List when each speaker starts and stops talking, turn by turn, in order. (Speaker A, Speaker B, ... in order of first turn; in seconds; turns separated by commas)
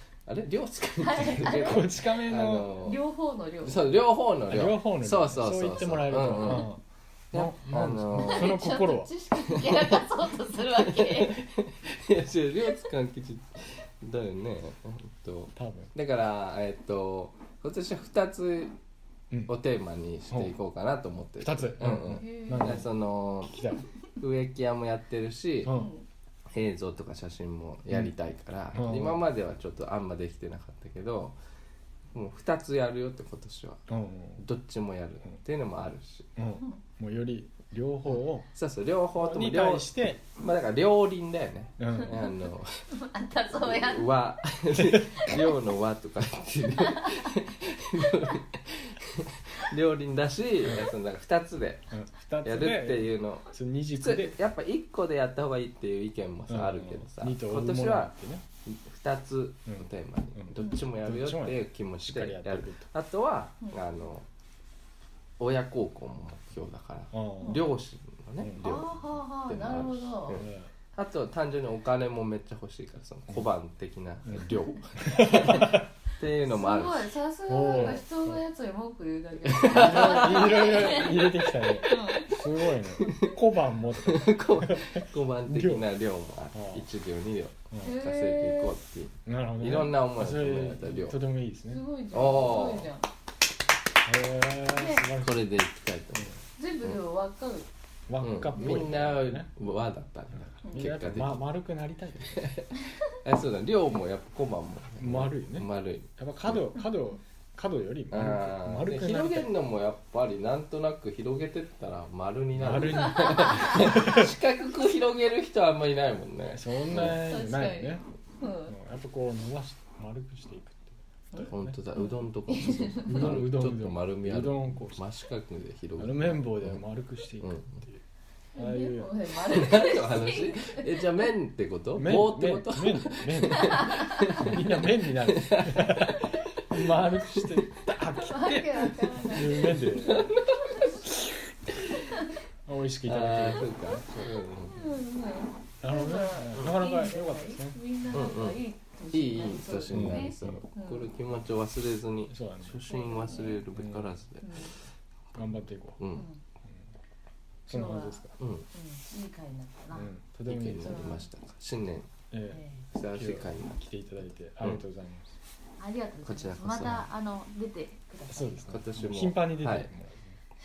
Speaker A: 0.3-3.0, Speaker B: 1.0-1.9, Speaker C: 1.5-2.7, Speaker B: 2.8-3.9, Speaker A: 3.6-6.7, Speaker C: 4.5-6.8, Speaker A: 7.3-8.6, Speaker C: 7.3-9.1, Speaker B: 8.2-11.4, Speaker A: 9.4-10.0, Speaker A: 10.7-18.7, Speaker C: 15.6-15.9, Speaker A: 19.5-23.6, Speaker C: 21.4-22.9, Speaker B: 22.2-22.8, Speaker C: 23.4-23.9, Speaker A: 24.2-25.8, Speaker C: 25.6-25.9, Speaker B: 25.7-26.1, Speaker A: 26.5-31.4, Speaker C: 28.7-29.2, Speaker A: 32.1-33.8, Speaker C: 33.9-34.4, Speaker A: 34.4-36.3, Speaker C: 36.4-38.5, Speaker A: 38.5-42.7, Speaker C: 39.2-40.2, Speaker C: 41.8-42.2, Speaker B: 42.9-44.1, Speaker A: 43.6-58.1, Speaker C: 44.8-45.1, Speaker B: 45.2-45.5, Speaker B: 46.8-47.3, Speaker C: 50.6-50.9, Speaker C: 51.9-54.4, Speaker C: 56.5-58.5, Speaker A: 58.7-64.3, Speaker C: 59.7-62.9, Speaker B: 60.6-60.8, Speaker A: 65.4-77.1, Speaker C: 67.1-67.7, Speaker C: 68.4-68.8, Speaker B: 68.6-70.4, Speaker C: 70.3-70.7, Speaker C: 74.3-75.8, Speaker B: 76.5-83.2, Speaker C: 77.5-78.2, Speaker A: 77.7-78.0, Speaker A: 79.5-81.3, Speaker C: 79.7-85.9, Speaker A: 81.9-82.2, Speaker A: 83.0-83.4, Speaker A: 83.9-91.2, Speaker C: 86.5-86.9, Speaker C: 87.7-88.0, Speaker B: 87.8-88.8, Speaker C: 89.3-91.8, Speaker B: 91.7-93.1, Speaker A: 92.1-92.9, Speaker C: 94.0-95.5, Speaker B: 94.7-95.1, Speaker A: 95.2-97.0, Speaker B: 96.6-97.7, Speaker C: 98.1-99.5, Speaker A: 98.2-101.5, Speaker C: 100.3-102.5, Speaker B: 100.6-100.9, Speaker A: 102.3-102.7, Speaker A: 103.2-106.6, Speaker C: 105.0-109.5, Speaker A: 108.1-117.2, Speaker C: 112.6-114.3, Speaker B: 113.0-113.8, Speaker C: 116.5-118.0, Speaker B: 117.0-118.7, Speaker C: 118.7-121.8, Speaker B: 121.3-123.3, Speaker A: 121.5-126.8, Speaker C: 123.0-125.0, Speaker C: 126.0-128.0, Speaker A: 127.4-127.8, Speaker B: 128.5-130.9, Speaker C: 128.6-129.1, Speaker A: 129.4-136.3, Speaker C: 131.9-140.3, Speaker A: 137.0-137.7, Speaker B: 138.2-139.9, Speaker A: 139.5-140.9, Speaker C: 141.1-141.3, Speaker C: 142.7-144.0, Speaker A: 143.1-145.0, Speaker B: 144.7-151.1, Speaker C: 145.8-148.2, Speaker A: 148.1-148.6, Speaker A: 149.1-154.7, Speaker C: 149.9-150.6, Speaker C: 152.3-152.8, Speaker B: 152.9-153.7, Speaker C: 153.7-154.2, Speaker B: 154.4-154.8, Speaker C: 155.3-156.0, Speaker A: 156.0-156.3, Speaker B: 156.1-156.4, Speaker B: 157.7-160.1, Speaker C: 157.7-158.4, Speaker A: 158.4-158.7, Speaker C: 159.9-161.1, Speaker A: 160.5-162.1, Speaker B: 160.8-161.3, Speaker C: 162.3-165.4, Speaker B: 162.5-162.9, Speaker A: 162.9-163.8, Speaker B: 165.8-168.6, Speaker A: 166.2-167.1, Speaker C: 168.3-170.4, Speaker A: 168.7-169.9